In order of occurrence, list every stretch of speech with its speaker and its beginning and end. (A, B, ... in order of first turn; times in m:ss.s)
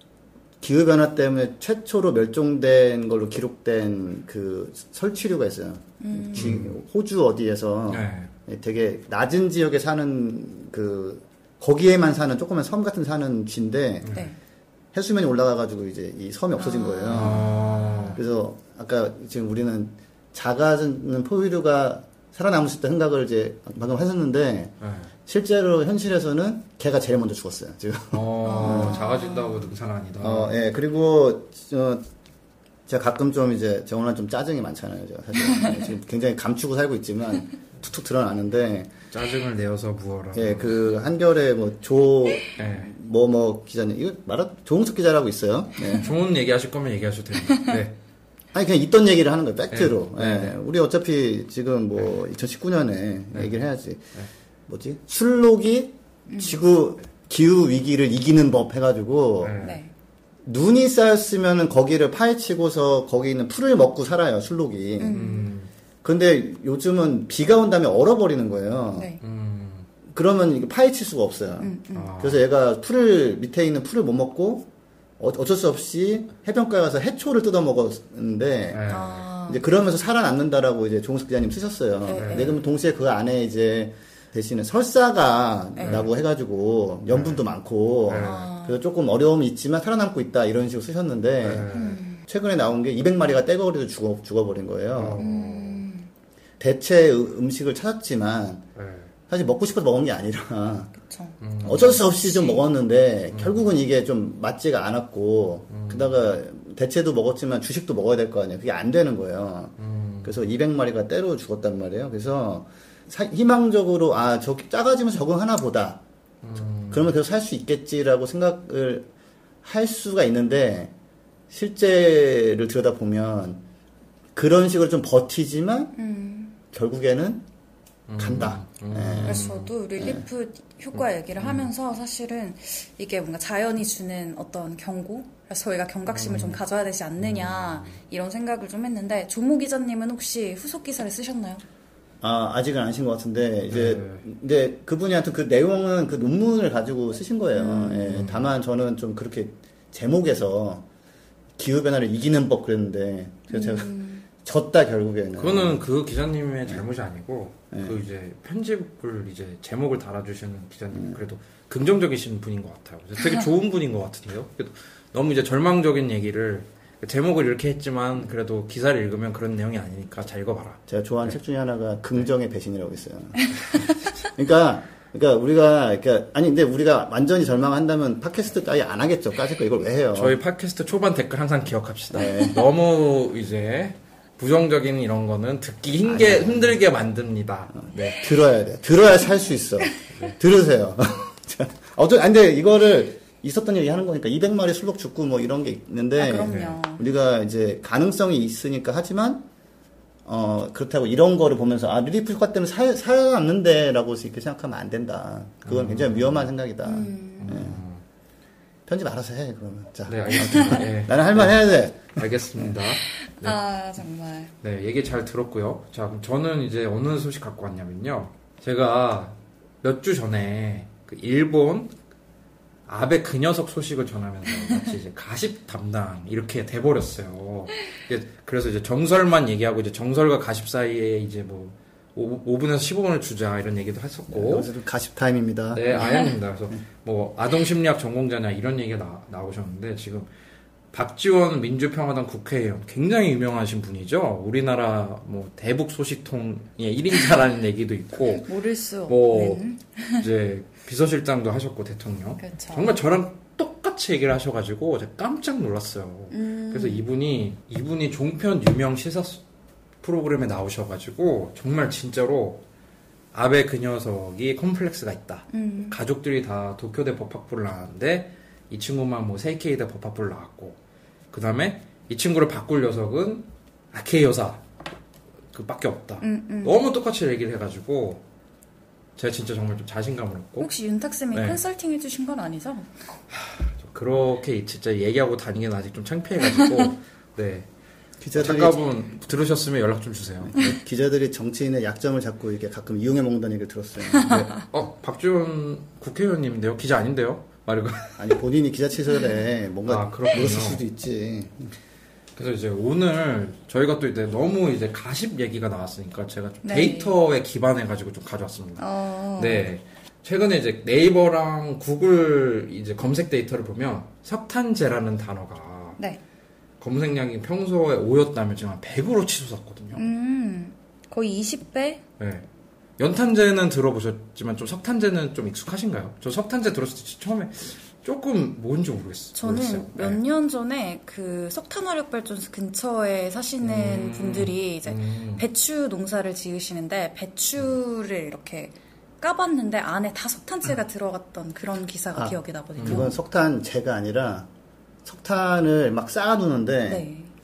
0:00.6-0:14.1 A
0:06.0-0:06.6 B
0:06.3-0:06.7 C
0:07.9-0:08.3 C
0:14.9-0:17.5 A
0:16.6-0:18.2 B
0:17.1-0:18.2 C
0:18.1-0:24.7 A
0:24.8-0:25.1 C
0:25.2-0:29.0 A
0:28.1-0:30.6 C
0:28.4-0:29.7 B
0:30.2-0:32.0 A
0:32.8-0:38.9 A
0:39.1-0:40.8 C
0:40.3-0:46.1 A
0:42.6-0:42.9 C
0:45.9-0:48.0 C
0:48.5-0:54.1 A
0:49.7-0:50.5 C
0:53.3-0:53.6 C
0:54.7-0:59.6 A
0:56.3-0:56.6 B
0:59.4-0:59.8 C
0:59.6-0:59.9 B
1:00.4-1:05.2 A
1:05.0-1:05.5 B
1:05.1-1:05.7 C
1:06.0-1:09.1 A
1:08.9-1:09.2 B
1:09.2-1:09.9 C
1:10.1-1:14.7 A
1:11.6-1:12.1 B
1:11.9-1:12.4 C
1:15.2-1:18.9 A
1:18.7-1:19.2 C
1:18.9-1:19.6 B
1:19.4-1:31.7 A
1:22.0-1:22.6 B
1:22.1-1:22.6 C
1:25.8-1:26.0 B
1:25.8-1:26.1 C
1:27.1-1:27.4 C
1:28.0-1:28.4 C
1:28.2-1:28.8 B
1:31.4-1:32.0 C
1:31.7-1:32.2 B
1:32.2-1:35.2 A
1:34.9-1:35.9 C
1:35.2-1:36.1 B
1:36.6-1:38.6 A
1:38.8-1:39.1 C
1:39.3-1:40.9 A
1:40.9-1:42.6 B
1:41.4-1:42.0 C
1:41.6-1:56.0 A
1:43.3-1:43.7 C
1:45.7-1:46.2 C
1:49.8-1:50.4 C
1:56.4-1:57.1 C
1:56.9-1:59.1 A
1:59.6-2:00.9 A
2:01.5-2:03.6 A
2:04.3-2:05.9 A
2:06.0-2:06.5 B
2:06.7-2:07.4 A
2:08.1-2:09.7 C
2:08.2-2:10.2 A
2:09.2-2:21.6 B
2:11.4-2:11.7 C
2:16.1-2:16.6 C
2:17.2-2:17.9 C
2:22.2-2:30.8 A
2:23.7-2:24.2 C
2:27.5-2:28.2 B
2:28.1-2:28.5 C
2:31.6-2:35.8 A
2:33.5-2:34.2 B
2:35.4-2:50.8 C
2:37.7-2:38.0 A
2:50.9-3:00.4 A
2:53.4-2:53.7 B
3:00.1-3:08.3 C
3:02.1-3:02.6 A
3:02.2-3:02.5 B
3:06.0-3:06.8 A
3:07.7-3:19.4 A
3:16.2-3:17.0 B
3:16.4-3:16.8 C
3:20.2-3:27.8 A
3:25.6-3:26.5 C
3:26.8-3:27.6 B
3:27.4-3:28.0 C
3:28.8-3:32.8 A
3:30.1-3:33.6 C
3:33.0-3:34.5 B
3:34.6-3:41.9 C
3:42.9-3:54.7 C
3:54.3-3:56.2 A
3:55.7-4:00.3 C
4:00.9-4:08.5 C
4:08.3-4:10.2 B
4:09.0-4:19.4 C
4:12.4-4:12.9 B
4:16.3-4:17.0 B
4:20.0-4:22.6 C
4:23.3-4:30.8 C
4:25.5-4:25.9 B
4:31.3-4:34.6 C
4:35.5-4:38.2 C
4:36.2-4:36.8 B
4:39.2-4:40.7 C
4:40.6-4:43.2 B
4:41.3-4:41.6 C
4:43.3-4:47.7 C
4:46.5-4:46.9 B
4:48.2-4:48.8 A
4:48.4-4:50.6 C
4:50.4-4:54.5 A
4:54.2-4:58.2 C
4:58.2-5:01.7 A
4:59.9-5:00.8 C
5:02.4-5:08.8 C
5:06.6-5:07.1 B
5:08.8-5:09.7 B
5:09.4-5:16.0 C
5:16.8-5:20.0 C
5:19.9-5:22.0 B
5:22.2-5:22.4 C
5:23.0-5:30.2 C
5:29.3-5:43.1 B
5:33.6-5:35.4 C
5:42.1-5:44.5 A
5:42.8-5:43.1 C
5:45.0-5:47.0 A
5:46.9-5:47.3 B